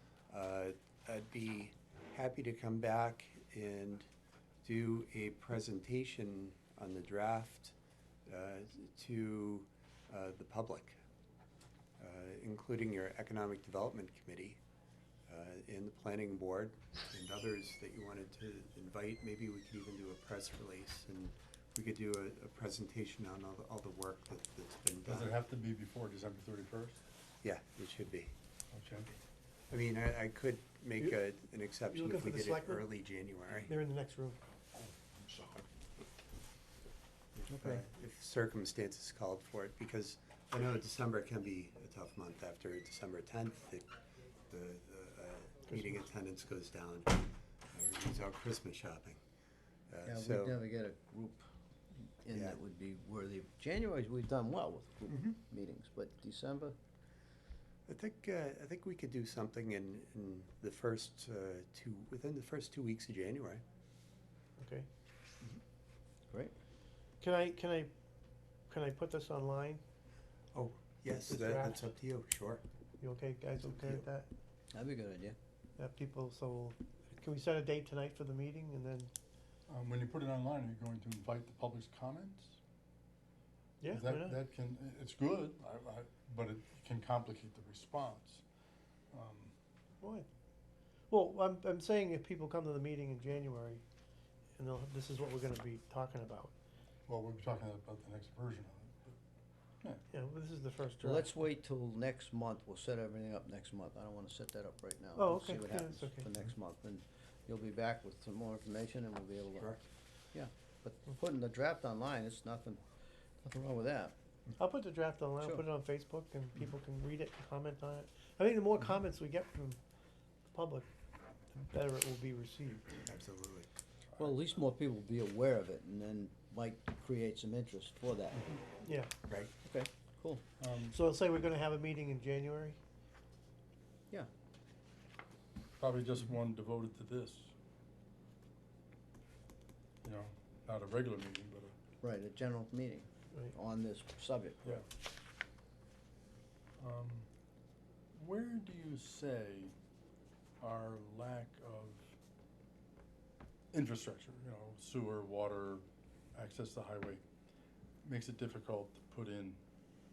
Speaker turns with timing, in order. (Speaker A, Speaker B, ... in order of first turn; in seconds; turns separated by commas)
Speaker A: 0.3-4.1, Speaker A: 4.6-7.7, Speaker A: 8.3-11.0, Speaker A: 12.0-14.6, Speaker A: 15.3-25.4, Speaker B: 25.0-27.0, Speaker A: 27.4-28.3, Speaker B: 28.7-29.1, Speaker A: 29.7-33.7, Speaker C: 31.9-32.9, Speaker C: 33.6-34.4, Speaker A: 37.4-43.9, Speaker D: 37.5-37.8, Speaker A: 44.5-49.2, Speaker C: 45.7-46.0, Speaker A: 49.9-50.6, Speaker D: 50.0-51.5, Speaker D: 52.2-56.8, Speaker A: 52.3-52.6, Speaker A: 55.1-55.4, Speaker A: 57.9-63.6, Speaker C: 64.6-64.9, Speaker C: 67.2-67.9, Speaker C: 68.7-69.8, Speaker A: 70.5-72.6, Speaker C: 71.2-71.9, Speaker C: 73.0-74.3, Speaker A: 73.6-74.0, Speaker D: 74.7-75.4, Speaker C: 75.8-79.1, Speaker B: 79.7-82.6, Speaker C: 83.8-84.4, Speaker B: 83.9-88.4, Speaker B: 89.1-89.5, Speaker C: 90.0-90.3, Speaker C: 91.1-93.8, Speaker C: 94.6-96.5, Speaker B: 97.1-99.2, Speaker C: 100.1-101.5, Speaker D: 101.0-109.8, Speaker C: 105.2-106.3, Speaker D: 110.3-112.8, Speaker D: 113.4-114.2, Speaker C: 114.6-119.8, Speaker C: 120.5-120.9, Speaker C: 121.5-123.1, Speaker A: 123.1-123.7, Speaker D: 124.2-128.6, Speaker C: 128.8-129.1, Speaker A: 129.3-129.5, Speaker D: 129.6-130.4, Speaker B: 130.6-130.9, Speaker C: 130.8-132.8, Speaker B: 135.8-137.5, Speaker B: 140.0-141.8, Speaker D: 142.0-144.8, Speaker B: 146.8-147.3, Speaker B: 148.2-149.7, Speaker B: 150.6-152.2, Speaker B: 153.7-155.8, Speaker B: 156.3-157.2, Speaker B: 158.0-159.6